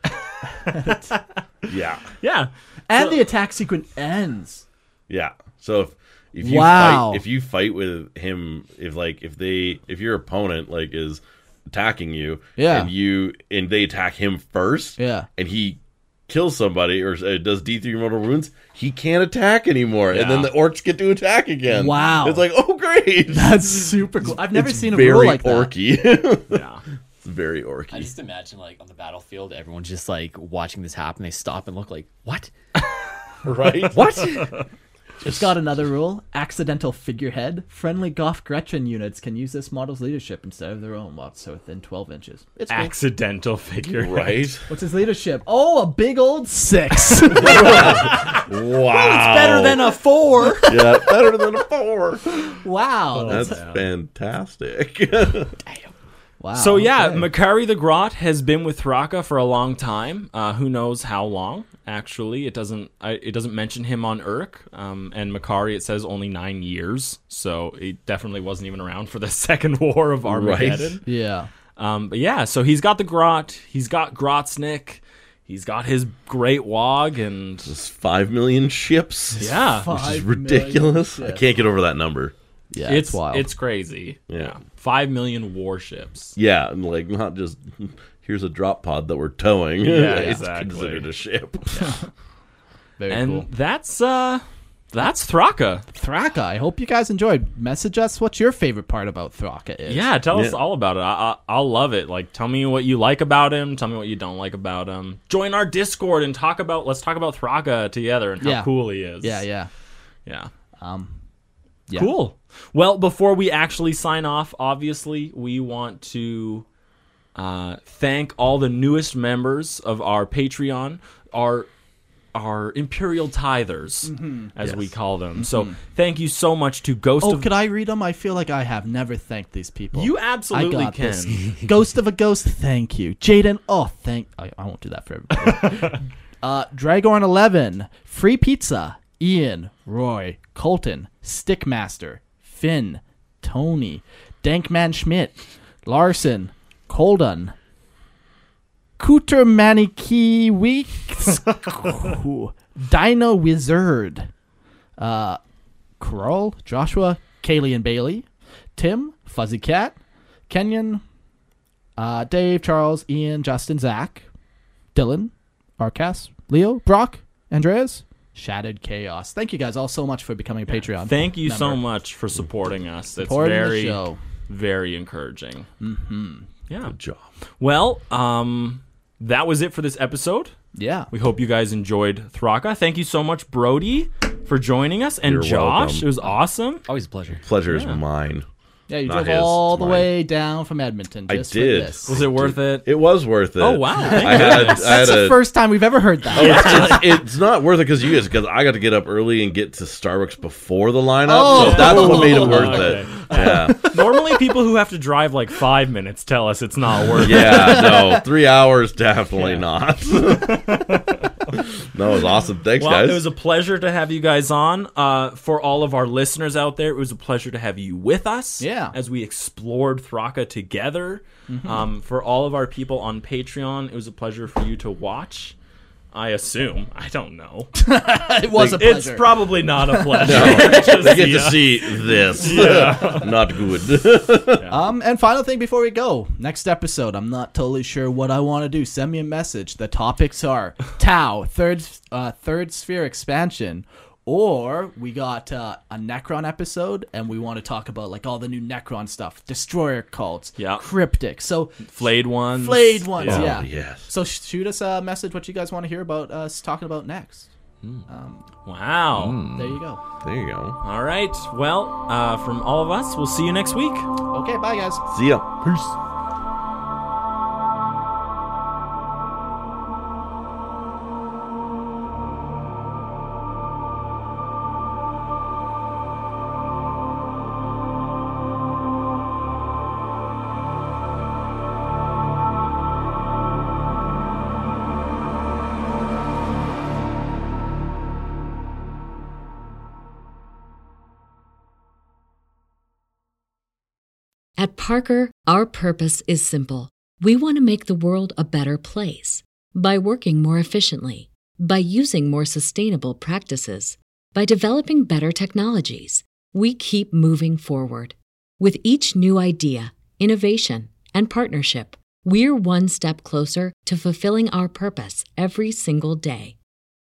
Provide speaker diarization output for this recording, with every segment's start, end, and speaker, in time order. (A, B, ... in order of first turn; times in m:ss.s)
0:00.6-0:01.4 A
0:00.7-0:01.1 B
0:01.7-0:02.1 C
0:02.2-0:03.2 A
0:02.9-0:04.6 B
0:05.1-0:26.6 C
0:06.4-0:07.2 B
0:12.6-0:12.9 B
0:15.0-0:15.3 B
0:20.1-0:20.5 A
0:21.7-0:22.4 B
0:23.3-0:25.7 B
0:26.5-0:26.8 A
0:27.2-0:28.1 C
0:27.9-0:32.5 D
0:33.4-0:34.5 C
0:33.8-0:34.6 A
0:34.0-0:34.5 D
0:35.2-0:35.5 C
0:35.2-0:42.9 B
0:42.7-0:44.5 A
0:43.9-0:44.7 C
0:44.7-0:48.4 B
0:47.4-0:49.8 C
0:47.4-0:48.5 A
0:49.0-0:50.8 A
0:50.4-0:50.8 B
0:50.7-0:52.2 C
0:52.5-0:53.6 B
0:53.1-0:53.8 A
0:53.3-0:55.5 C
0:55.6-0:55.9 D
0:56.4-0:57.3 B
0:56.5-1:11.0 A
1:10.3-1:11.0 C
1:11.0-1:11.5 B
1:11.8-1:17.7 A
1:17.7-1:22.3 C
1:19.4-1:19.9 A
1:19.4-1:21.4 B
1:22.7-1:23.5 B
1:22.8-1:26.3 A
1:24.3-1:24.6 C
1:26.4-1:31.9 C
1:29.8-1:31.1 A
1:30.0-1:30.4 B
1:33.0-1:33.5 B
1:33.1-1:35.8 A
1:35.9-1:40.1 B
1:39.9-1:49.4 A
1:40.3-1:40.6 C
1:48.4-1:48.7 B
1:49.2-1:49.7 B
1:50.8-1:51.2 B
1:51.9-1:56.6 A
1:57.3-2:01.7 A
2:02.3-2:07.5 A
2:04.0-2:04.5 B
2:05.4-2:05.7 B
2:07.2-2:27.5 B
2:09.9-2:11.5 A
2:15.6-2:15.9 A
2:29.0-2:34.3 B
2:35.0-2:35.4 B
2:36.0-2:40.0 B
2:40.5-2:41.0 B
2:42.0-2:44.3 B
2:44.9-2:51.8 B
2:50.7-2:55.7 A
2:53.2-2:54.2 B
2:55.8-2:56.5 B
2:56.7-2:56.9 A
2:56.8-2:57.3 C
2:57.6-3:00.5 A
3:00.8-3:01.1 B
3:01.1-3:06.8 A
3:05.2-3:06.0 C
3:06.9-3:07.4 D
3:07.4-3:08.4 C
3:07.7-3:08.0 A
3:08.9-3:12.2 B
3:09.0-3:10.1 C
3:11.3-3:15.4 C
3:12.0-3:12.9 A
3:13.6-3:15.1 A
3:14.0-3:17.2 B
3:16.3-3:23.9 C
3:16.3-3:17.0 A
3:21.2-3:24.0 B
3:21.4-3:27.9 A
3:27.2-3:30.6 C
3:27.3-3:28.2 B
3:29.4-3:29.6 B
3:30.3-3:31.3 A
3:31.8-3:33.3 C
3:32.8-3:45.5 A
3:38.6-3:38.9 B
3:41.5-3:41.9 B
3:46.1-3:47.7 A
3:47.8-3:51.3 B
3:48.5-3:48.8 C
3:48.6-3:53.3 A
3:50.2-3:54.7 C
3:52.4-3:53.3 B
3:54.5-3:54.8 A
3:54.7-4:17.5 B
4:10.6-4:10.8 A
4:11.9-4:13.6 A
4:13.2-4:14.1 C
4:18.1-4:18.4 B
4:18.6-4:19.4 A
4:19.2-4:19.8 D
4:19.5-4:20.0 B
4:20.2-4:20.8 C
4:20.8-4:24.1 A
4:24.3-4:25.0 B
4:25.1-4:25.9 C
4:54.6-5:16.6 E